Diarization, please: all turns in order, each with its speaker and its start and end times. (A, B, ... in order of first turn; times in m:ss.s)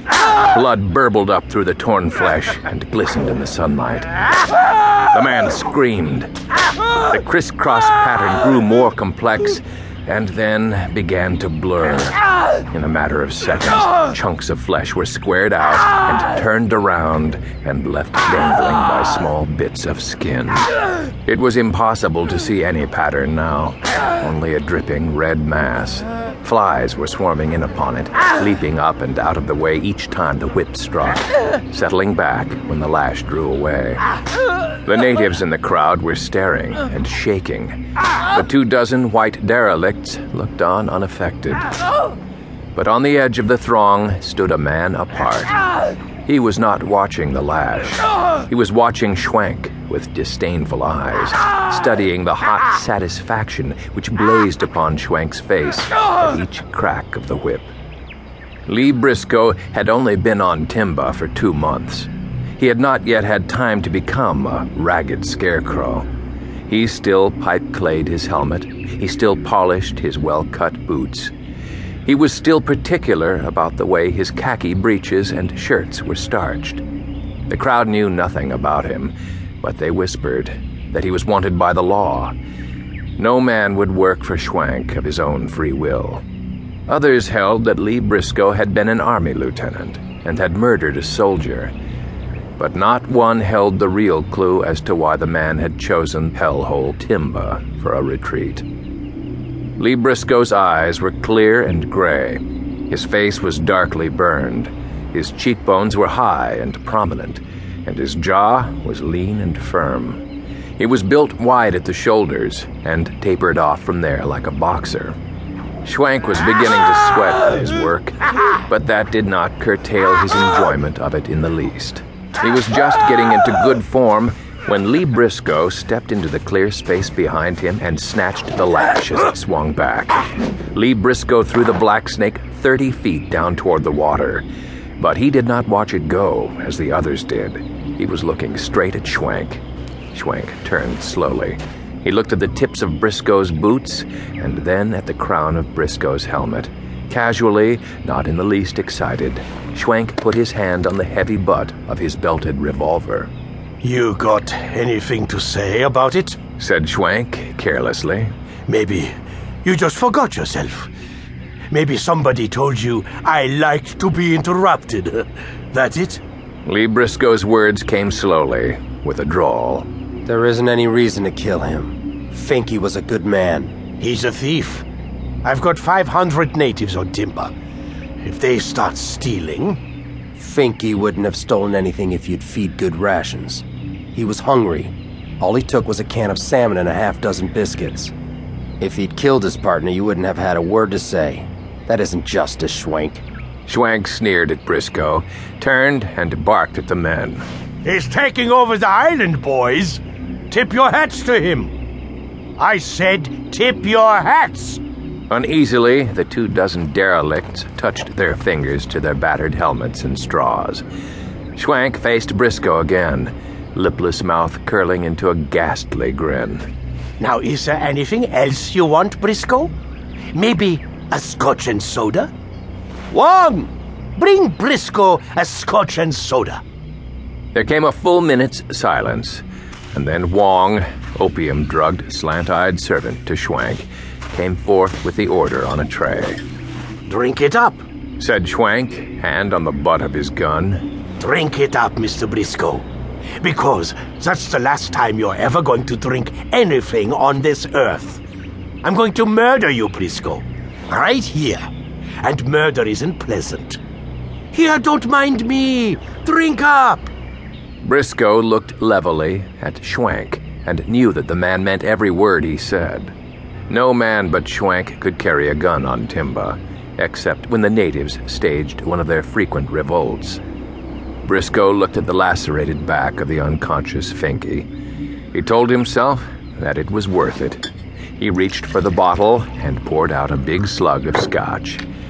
0:00.4-0:06.3 A
0:07.0-0:20.7 A
0:21.2-0:34.0 A
0:34.8-0:41.8 A
0:42.8-0:45.6 A
0:46.3-0:57.7 A
0:58.7-1:06.1 A
1:06.7-1:11.3 A
1:12.0-1:16.8 A
1:17.5-1:22.3 A
1:23.2-1:26.2 A
1:26.9-1:31.7 A
1:32.6-1:38.6 A
1:39.8-1:50.2 A
1:50.8-1:55.2 A
1:55.8-2:14.5 A
2:15.0-2:33.3 A
2:33.8-2:36.4 B
2:36.6-2:38.3 A
2:38.7-2:40.9 B
2:41.7-2:46.2 B
2:46.7-2:49.9 A
2:50.3-2:53.8 C
2:54.0-2:54.8 B
2:55.4-2:57.5 B
2:58.2-2:59.8 B
3:00.4-3:08.1 C
3:08.8-3:13.2 C
3:13.7-3:17.4 A
3:17.8-3:21.8 B
3:22.6-3:24.8 B
3:25.3-3:30.8 A
3:31.6-3:36.6 A
3:37.2-3:39.7 B
3:40.3-3:42.3 B
3:43.1-3:46.6 B
3:47.5-3:56.4 A
3:57.1-3:57.8 B
3:58.2-4:00.9 A
4:01.2-4:02.8 B
4:03.4-4:08.2 B
4:08.8-4:11.7 B
4:12.2-4:13.8 B
4:14.5-4:17.1 B
4:17.8-4:23.1 A
4:23.7-4:30.4 A
4:31.3-4:34.7 A
4:35.3-4:37.6 A
4:38.2-4:41.8 A